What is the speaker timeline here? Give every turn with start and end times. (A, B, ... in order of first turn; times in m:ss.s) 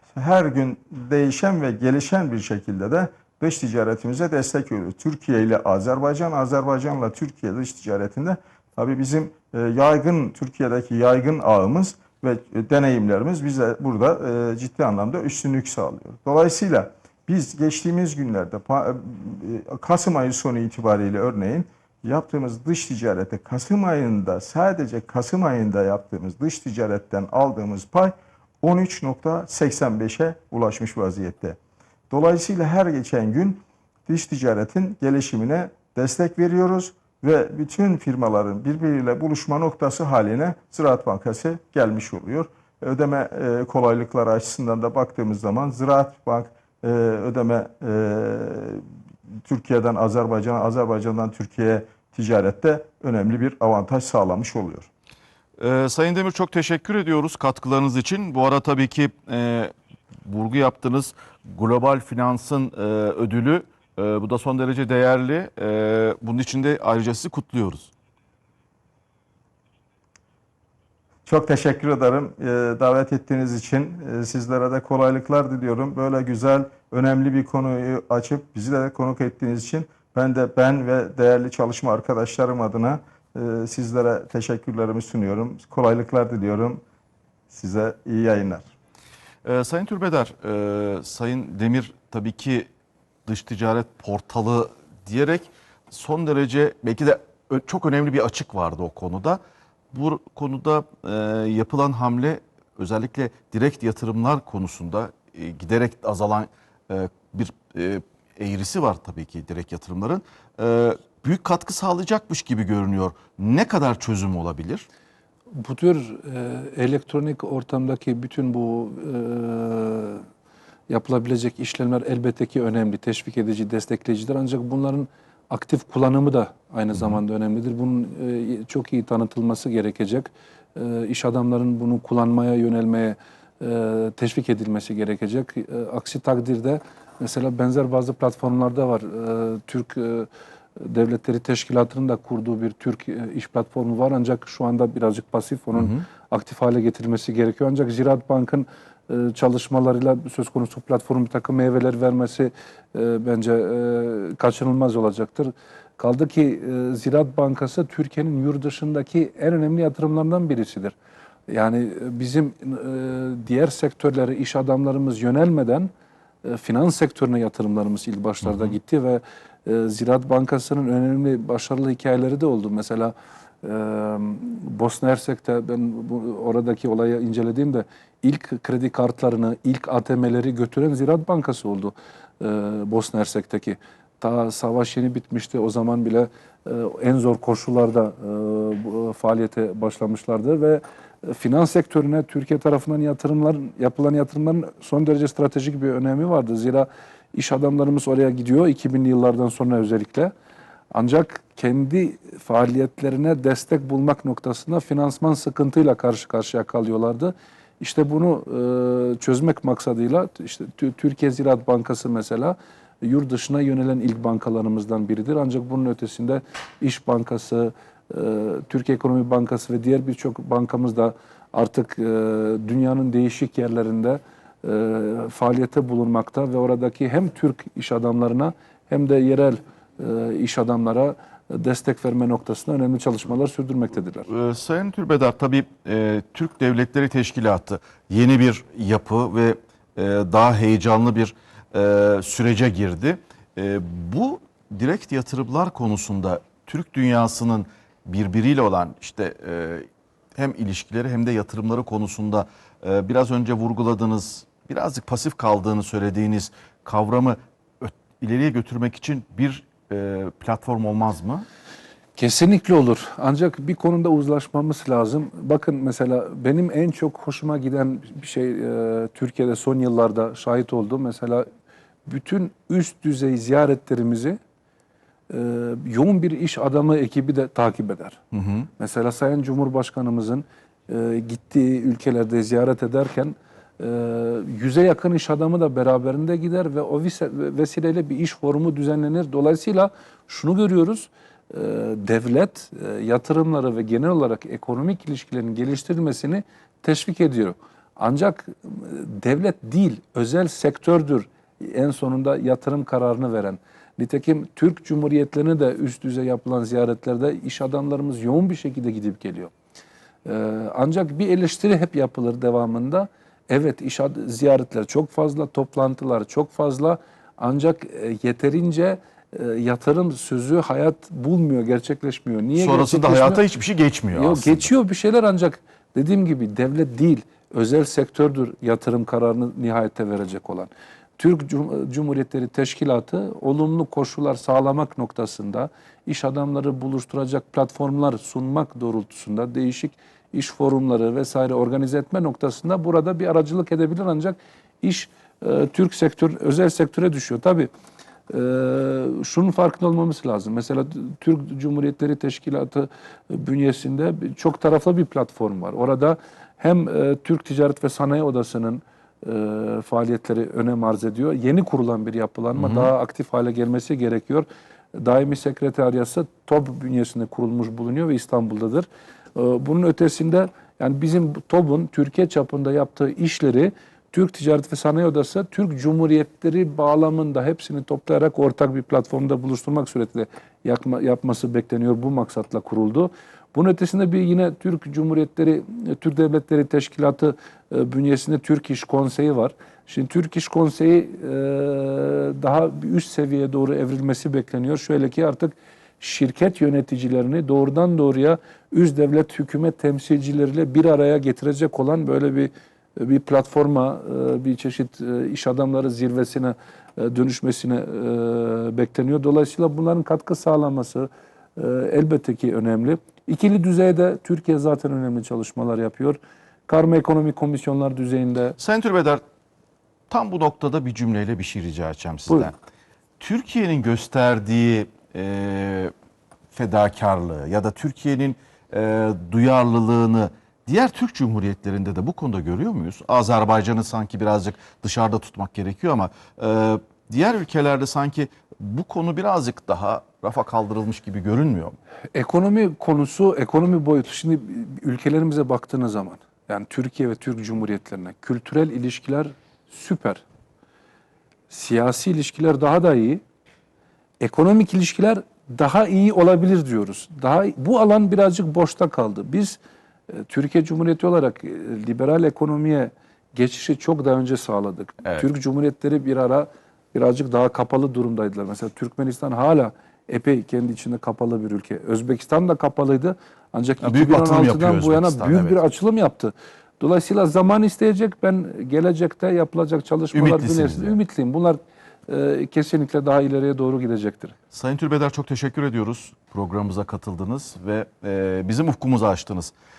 0:00.2-0:31.6 A
0:32.1-0:48.8 A
0:49.5-0:54.9 A
0:55.6-1:07.9 B
1:11.3-1:26.8 A
1:27.5-1:28.7 A
1:29.4-1:32.7 B
1:33.3-1:39.4 B
1:39.9-1:54.8 B
1:55.6-2:00.2 C
2:00.9-2:41.0 C
2:25.8-2:26.1 B
2:41.5-2:45.9 C
2:46.4-3:20.3 C
2:48.4-2:48.8 B
3:20.9-3:54.3 C
3:54.3-4:21.4 B
4:22.2-4:31.5 C
4:32.1-4:34.4 C
4:35.3-4:38.2 C
4:38.3-4:38.7 B
4:38.8-5:09.5 C
5:10.2-5:23.4 C
5:22.6-5:24.7 B
5:24.1-5:47.7 C
5:48.3-6:58.6 C
6:02.6-6:02.9 B
6:58.6-6:59.2 B
7:00.1-7:02.6 B
7:03.2-7:05.9 B
7:06.5-7:21.8 B
7:22.1-7:30.2 C
7:31.5-7:33.2 C
7:34.2-8:04.3 C
7:53.8-7:55.6 B
8:00.1-8:01.0 B
8:04.5-8:09.5 B